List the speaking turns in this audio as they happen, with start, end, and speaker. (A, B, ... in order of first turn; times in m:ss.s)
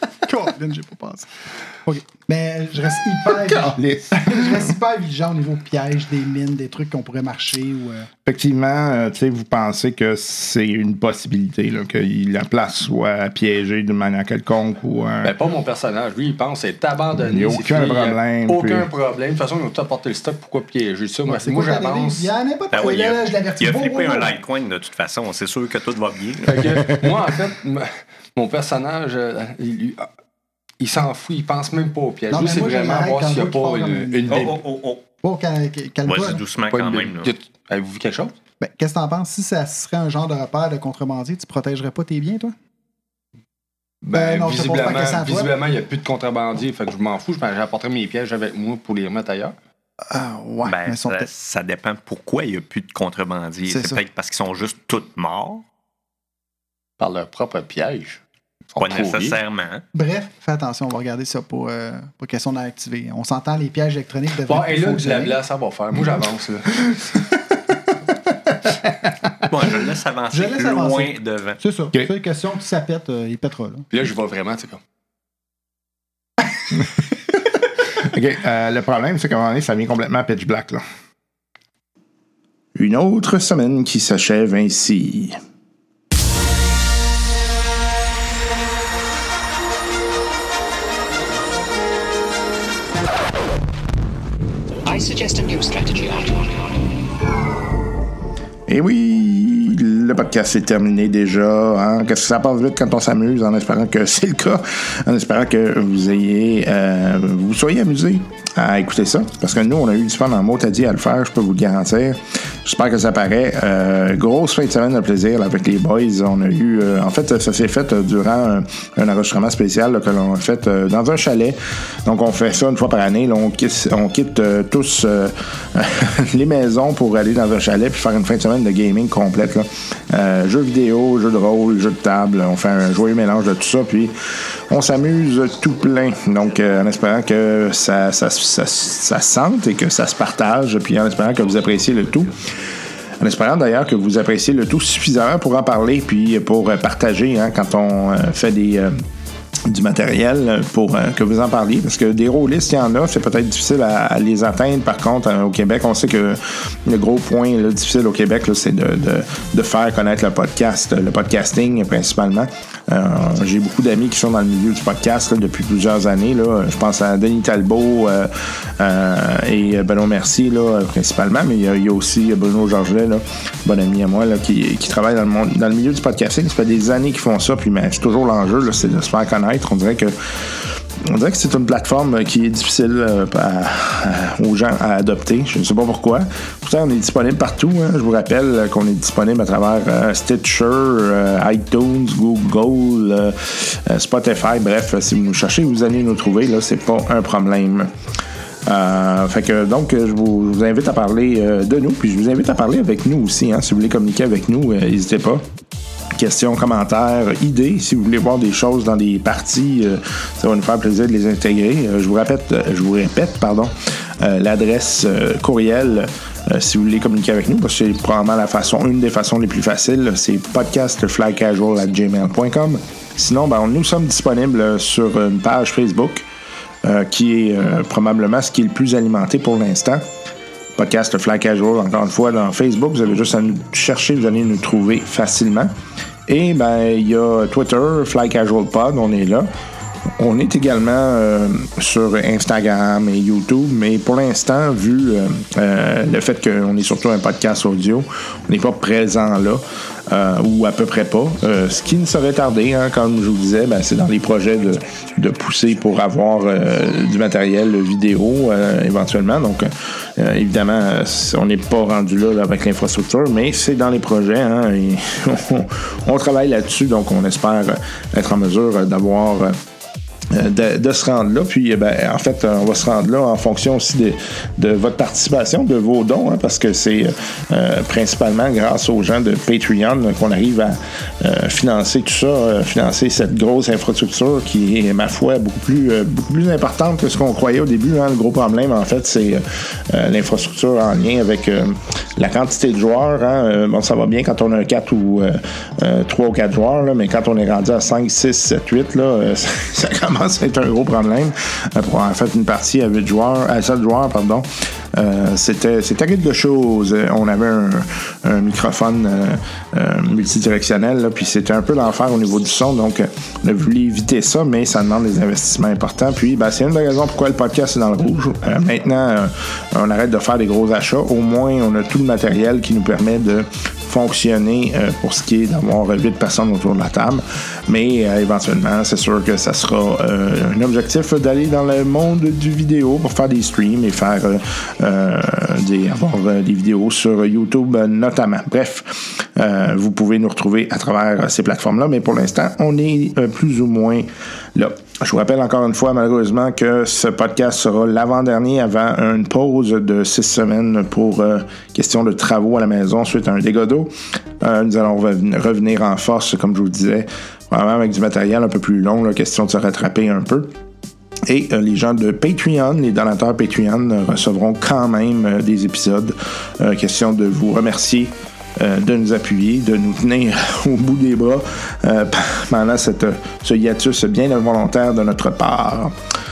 0:00.3-0:01.3 A
0:01.8-0:08.1 A
0:03.8-0:04.6 B
0:08.2-0:15.4 B
0:15.2-0:22.3 C
0:17.2-0:18.9 B
0:21.3-0:24.3 A
0:22.7-0:27.0 D
0:26.5-0:30.1 C
0:30.8-0:34.6 C
0:32.3-0:34.5 A
0:34.3-0:35.0 D
0:35.2-0:36.4 A
0:36.1-0:37.3 D
0:36.7-0:38.4 C
0:38.6-0:42.6 A
0:44.0-0:49.6 C
0:44.1-0:45.6 A
0:50.1-0:51.3 A
0:50.6-0:55.6 D
0:53.7-0:54.0 A
0:57.0-0:58.2 C
0:58.8-0:59.4 C
0:58.8-0:59.8 D
0:59.9-1:05.4 A
1:04.4-1:07.2 C
1:09.4-1:11.6 D
1:10.3-1:13.9 A
1:13.9-1:14.8 C
1:17.9-1:20.8 B
1:22.8-1:25.4 B
1:34.9-1:36.8 E
1:38.7-2:22.3 B
2:23.2-2:29.0 B
2:29.7-3:17.9 B
3:18.7-3:25.4 B
3:26.2-3:46.3 B
3:46.8-3:50.0 B
3:50.8-3:55.7 B
3:56.3-3:59.5 B
4:00.2-4:29.5 B
4:30.3-6:00.5 B
6:01.3-6:15.9 B